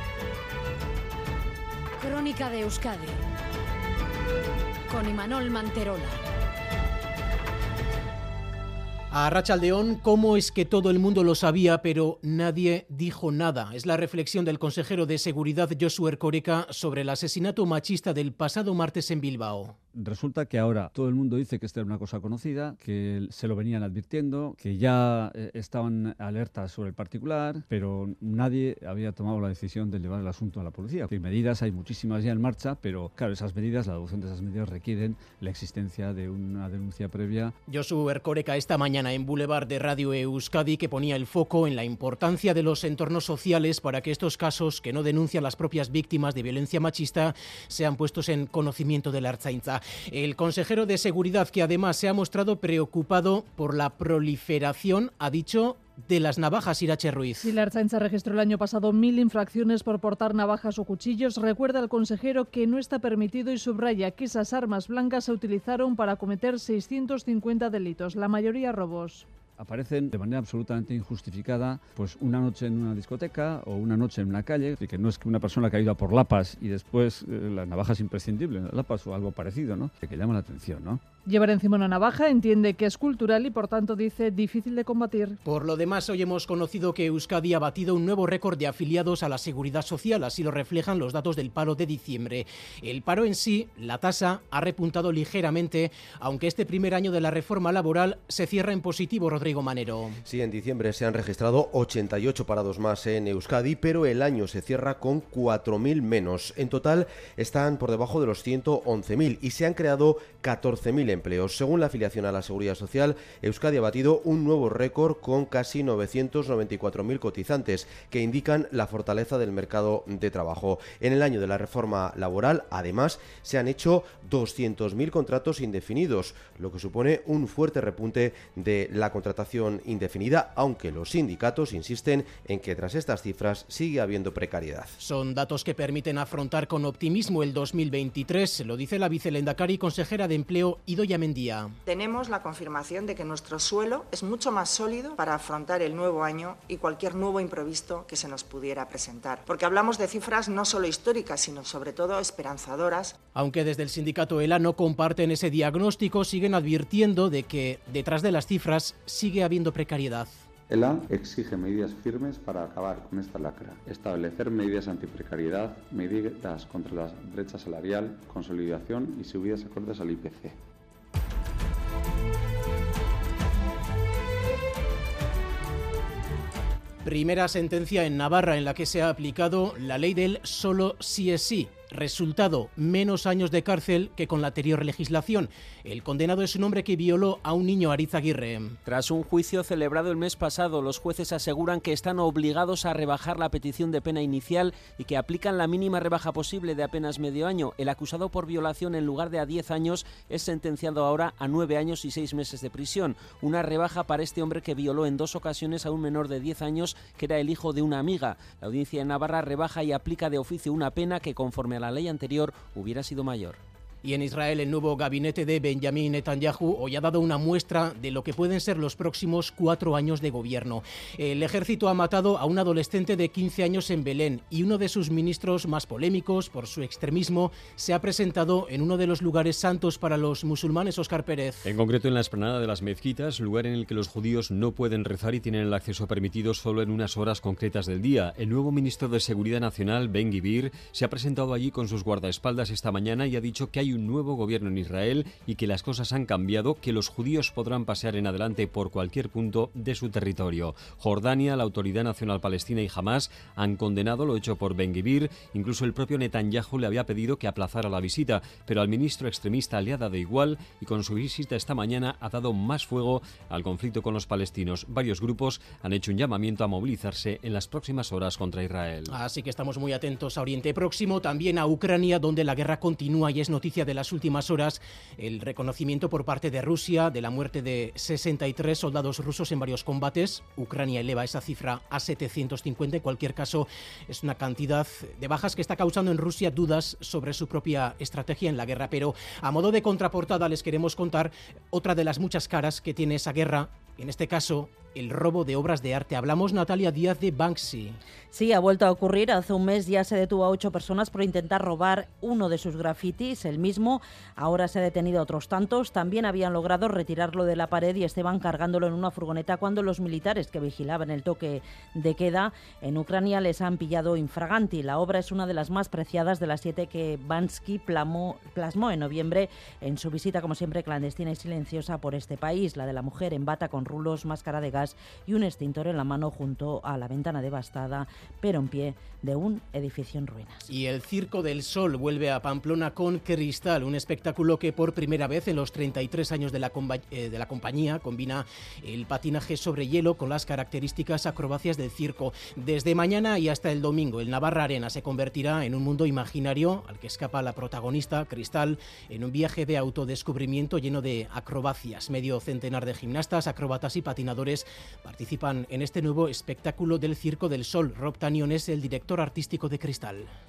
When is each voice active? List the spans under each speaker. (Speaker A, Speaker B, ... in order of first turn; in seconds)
Speaker A: 2.0-3.2, 4.9-6.2
Speaker B: 9.1-19.8, 37.7-57.5, 85.5-100.2, 135.0-141.7, 153.3-160.3, 177.0-188.8, 214.0-231.7, 269.1-298.0, 330.7-360.3
Speaker C: 19.9-37.5, 69.6-81.0
Speaker D: 57.4-69.3, 81.3-85.4
Speaker E: 100.2-134.9
Speaker F: 141.9-153.1
Speaker G: 160.7-170.6
Speaker H: 188.9-213.6
Speaker I: 231.7-269.1
Speaker J: 298.3-330.6